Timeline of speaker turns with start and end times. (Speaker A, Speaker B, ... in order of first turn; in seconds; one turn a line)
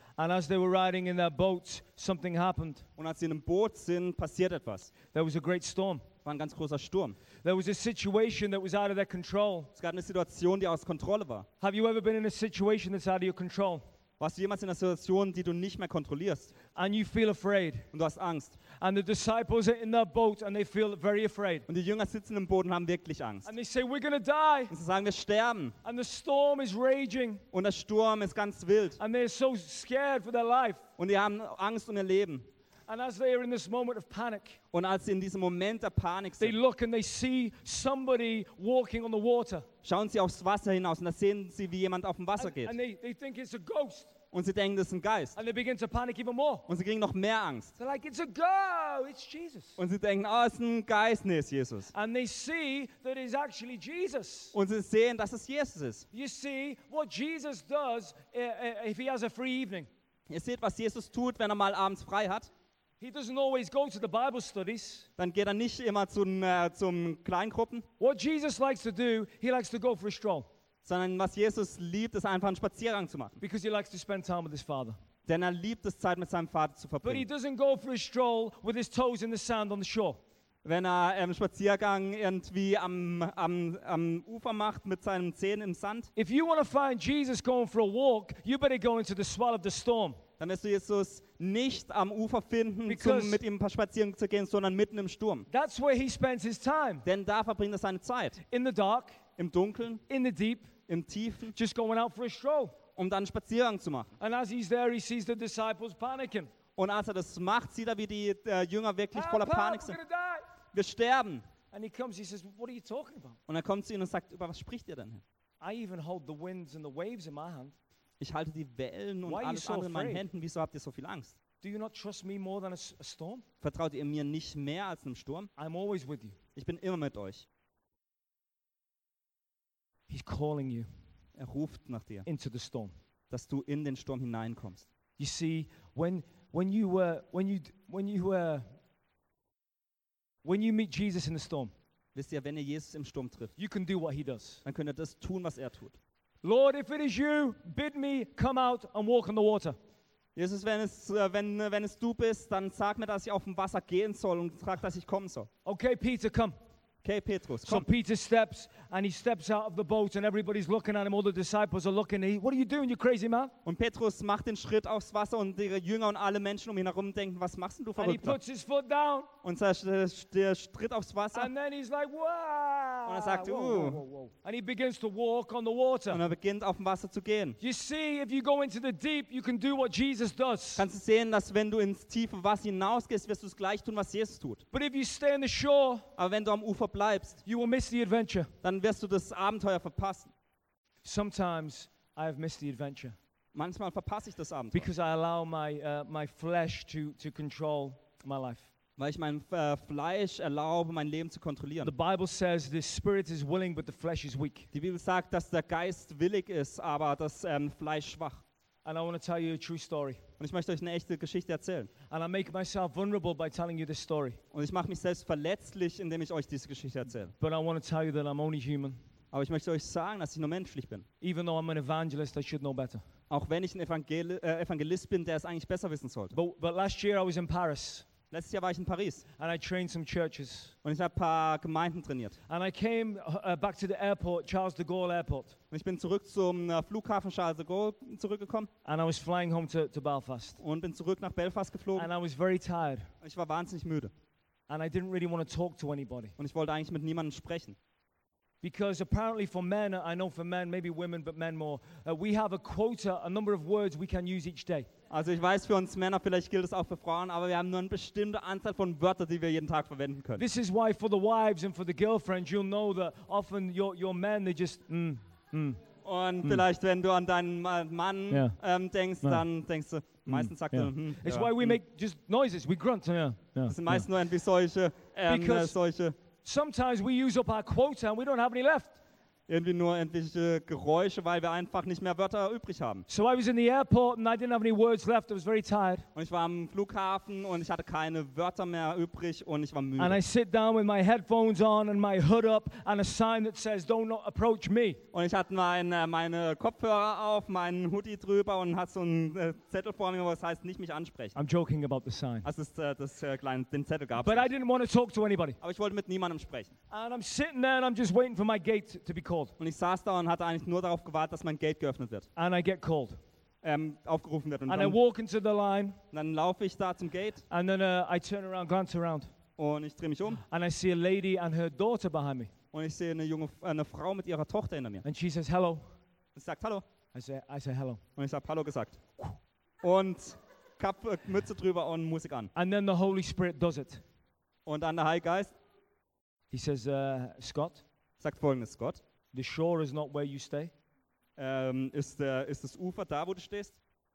Speaker A: 0.2-2.8
Speaker B: 3.0-4.9
Speaker A: 5.1-6.0
Speaker B: 6.2-7.2
Speaker A: 7.4-9.7
Speaker B: 9.8-11.5
Speaker A: 11.6-13.8
Speaker B: 14.2-16.5
Speaker A: 16.7-17.9
Speaker B: 17.9-18.6
Speaker A: 18.8-21.7
Speaker B: 21.7-23.5
Speaker A: 23.4-24.7
Speaker B: 24.7-25.7
Speaker A: 25.8-27.4
Speaker B: 27.5-29.0
Speaker A: 29.0-30.8
Speaker B: 31.0-32.5
Speaker A: 32.9-34.6
Speaker B: 34.7-36.5
Speaker A: 36.4-39.6
Speaker B: 39.8-42.8
Speaker A: 42.4-44.1
Speaker B: 44.3-45.4
Speaker A: 45.4-46.6
Speaker B: 46.7-47.8
Speaker A: 47.8-49.8
Speaker B: 49.8-51.9
Speaker A: 51.9-54.5
Speaker B: 54.5-56.1
Speaker A: 56.1-59.9
Speaker B: 60.3-62.5
Speaker A: 63.0-65.1
Speaker B: 65.2-67.8
Speaker A: 68.0-70.5
Speaker B: 70.8-73.4
Speaker A: 73.4-75.0
Speaker B: 75.2-77.3
Speaker A: 77.0-80.2
Speaker B: 80.6-86.1
Speaker A: 86.2-90.2
Speaker B: 90.4-95.5
Speaker A: 92.9-93.4
Speaker A: 95.5-97.0
Speaker B: 97.0-98.4
Speaker A: 98.5-99.2
Speaker B: 99.4-100.0
Speaker A: 100.1-100.7
Speaker B: 100.9-101.5
Speaker A: 101.5-102.8
Speaker B: 103.0-104.1
Speaker A: 104.2-106.5
Speaker B: 106.8-110.0
Speaker A: 109.1-110.4
Speaker B: 110.7-111.5
Speaker A: 111.7-113.4
Speaker B: 113.5-115.2
Speaker A: 115.6-117.7
Speaker B: 118.2-121.4
Speaker A: 119.2-120.2
Speaker A: 121.6-123.4
Speaker B: 123.6-125.5
Speaker A: 125.6-126.4
Speaker B: 126.5-127.5
Speaker A: 130.1-130.9
Speaker B: 131.3-132.2
Speaker A: 132.2-132.9
Speaker B: 133.3-134.9
Speaker A: 135.2-138.7
Speaker A: 140.4-141.7
Speaker B: 142.1-143.5
Speaker A: 143.6-144.6
Speaker B: 144.6-146.0
Speaker A: 146.4-149.8
Speaker B: 150.3-155.5
Speaker A: 155.6-156.6
Speaker B: 157.0-157.9
Speaker A: 157.7-163.5
Speaker B: 163.6-168.4
Speaker A: 168.0-169.3
Speaker B: 169.4-171.5
Speaker A: 171.3-176.2
Speaker B: 173.1-174.0
Speaker B: 176.1-177.6
Speaker A: 177.6-180.8
Speaker B: 180.8-184.6
Speaker A: 184.7-186.0
Speaker B: 186.2-187.4
Speaker A: 187.4-188.5
Speaker B: 188.6-190.3
Speaker A: 191.0-193.2
Speaker B: 193.5-194.9
Speaker A: 194.7-198.7
Speaker B: 199.0-201.9
Speaker A: 201.8-204.7
Speaker B: 204.7-208.4
Speaker A: 208.8-210.2
Speaker B: 210.4-211.9
Speaker A: 212.1-214.4
Speaker B: 214.5-217.3
Speaker A: 217.4-219.0
Speaker B: 219.3-221.1
Speaker A: 221.2-223.0
Speaker B: 223.3-226.4
Speaker A: 226.3-228.1
Speaker B: 228.3-229.2
Speaker A: 229.4-230.7
Speaker B: 230.8-232.4
Speaker A: 232.5-235.6
Speaker B: 235.7-238.7
Speaker A: 238.8-240.6
Speaker B: 240.6-242.1
Speaker A: 241.9-243.1
Speaker B: 243.2-244.1
Speaker A: 244.7-246.3
Speaker B: 246.4-247.8
Speaker A: 248.6-254.9
Speaker B: 255.1-260.4
Speaker A: 260.4-265.8
Speaker B: 266.0-271.8
Speaker A: 268.3-268.6
Speaker A: 270.2-274.1
Speaker B: 273.7-276.1
Speaker A: 275.3-275.8
Speaker A: 276.4-279.0
Speaker B: 279.5-283.1
Speaker A: 283.1-286.1
Speaker B: 286.1-290.2
Speaker A: 290.0-295.0
Speaker B: 295.1-301.4
Speaker A: 301.4-302.5
Speaker B: 302.4-304.5
Speaker A: 304.2-305.6
Speaker B: 305.6-306.7
Speaker A: 306.9-309.5
Speaker B: 309.6-312.3
Speaker A: 312.4-313.2
Speaker B: 313.6-315.0
Speaker A: 314.7-316.0
Speaker B: 316.1-317.4
Speaker A: 317.5-319.3
Speaker B: 319.6-320.4
Speaker A: 320.5-322.5
Speaker B: 322.7-325.0
Speaker A: 325.0-325.8
Speaker B: 326.3-326.8
Speaker A: 327.1-328.0
Speaker B: 328.2-329.0
Speaker B: 329.8-332.5
Speaker A: 332.5-334.0
Speaker B: 334.6-335.5
Speaker A: 336.5-337.8
Speaker B: 338.2-339.0
Speaker A: 339.3-340.7
Speaker B: 341.4-343.8